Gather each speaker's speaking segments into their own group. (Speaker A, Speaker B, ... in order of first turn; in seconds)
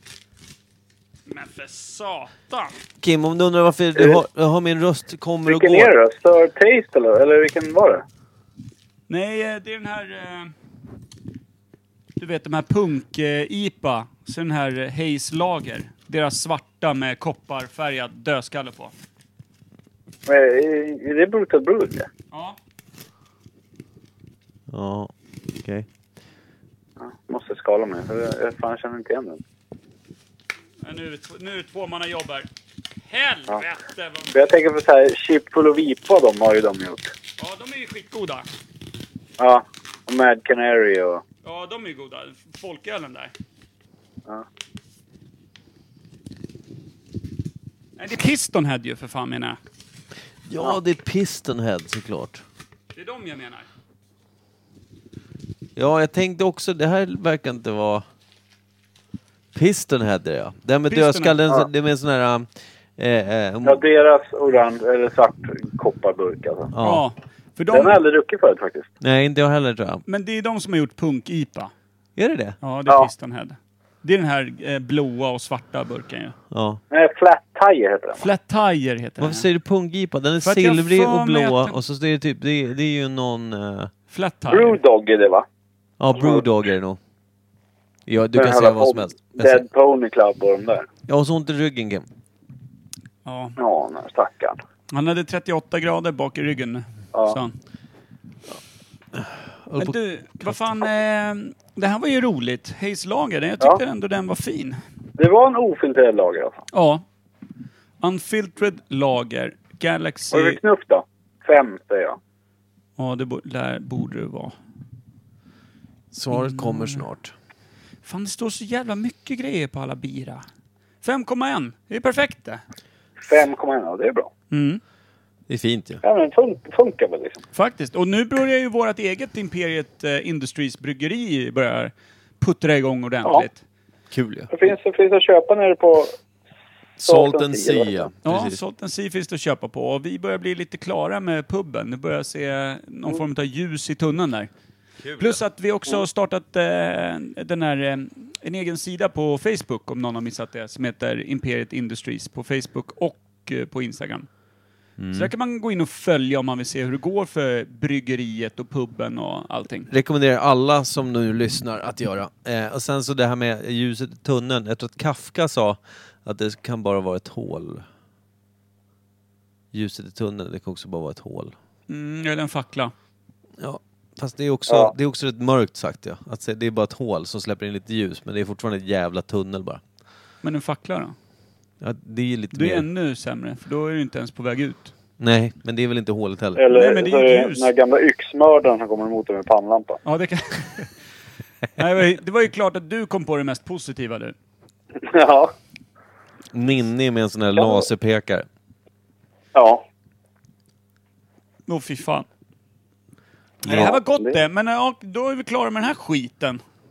Speaker A: 1.3-2.7, 9.1-10.5, 12.2-18.9, 22.3-22.6, 30.8-32.5, 33.1-34.3, 37.4-38.5, 41.4-43.3, 48.0-49.6, 52.9-53.6, 60.9-61.4, 66.8-68.0, 70.1-71.7, 72.6-76.3, 78.2-79.5, 80.4-81.8, 84.1-84.8, 93.2-93.6, 94.9-97.5, 99.8-104.8, 106.7-107.0, 108.0-110.6, 113.0-114.5, 116.3-117.0, 118.0-120.4, 121.0-122.6, 124.5-124.8, 127.5-133.6, 138.2-144.5, 145.2-154.3, 155.1-159.9, 171.9-172.9, 180.4-181.1, 182.5-184.9, 186.7-187.7, 190.1-190.9, 191.8-194.3, 201.7-202.3, 203.7-206.6
Speaker B: 3.0-5.9, 24.7-25.1, 50.5-52.4, 55.8-58.0, 59.5-63.8, 66.7-67.0, 69.0-70.0, 72.2-72.6, 76.5-76.8, 79.2-83.9, 86.0-87.0, 88.1-89.6, 91.1-92.0, 99.1-100.7, 116.1-117.3, 125.5-126.0, 134.1-134.5, 137.0-138.6, 145.0-145.4, 155.0-155.3, 159.9-167.8, 169.7-171.5, 173.6-179.8, 181.8-182.8, 185.2-186.6, 196.5-198.5, 203.6-203.9
Speaker C: 5.5-8.0, 20.3-22.1, 27.0-29.4, 34.3-37.1, 39.4-41.2, 63.6-66.7, 67.7-68.9, 76.9-78.3, 84.5-85.5, 86.2-86.4, 88.3-90.9, 93.6-94.6, 97.1-97.4, 105.2-106.6, 110.3-112.2, 123.2-124.3, 126.0-127.4, 134.5-136.2, 137.0-138.1, 174.7-174.9, 186.6-190.0, 194.9-195.5, 197.6-197.8, 199.5-199.8, 203.7-204.4